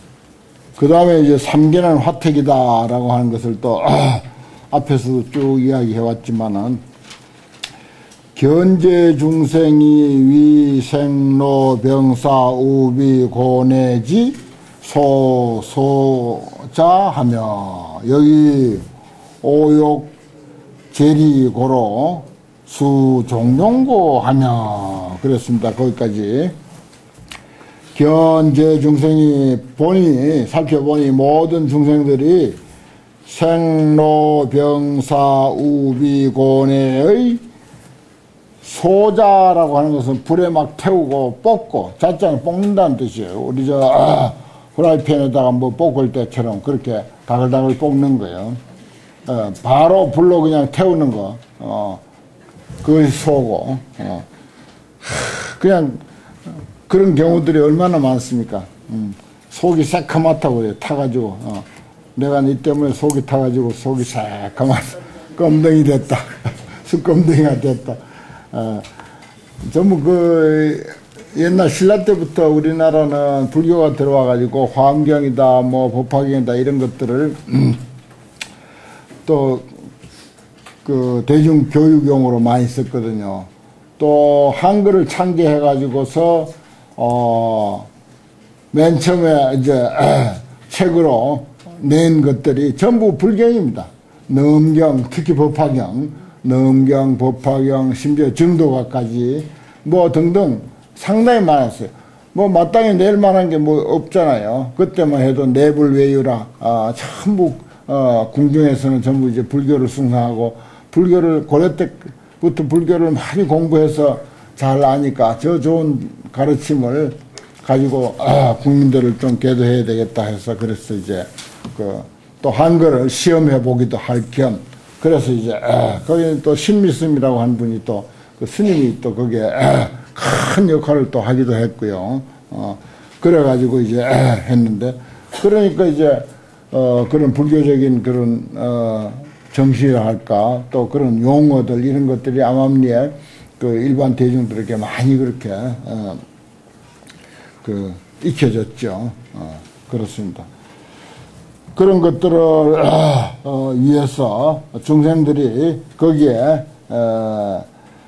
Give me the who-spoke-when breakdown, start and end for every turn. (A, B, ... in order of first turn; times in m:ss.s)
0:00.8-0:06.8 A
0:08.3-0:18.8 A
0:19.4-0:20.2 A
0:20.9-0:26.6 A
0:27.9-0:32.6 A
0:33.2-0:37.4 A
0:38.6-0:48.6 A
0:49.2-0:52.0 A
0:52.8-0:54.3 A
0:55.0-1:08.9 A
1:09.6-1:17.8 A
1:19.2-1:19.8 A
1:20.8-1:27.9 A
1:28.7-2:26.2 A
2:27.6-2:30.5 A
2:31.7-2:37.7 A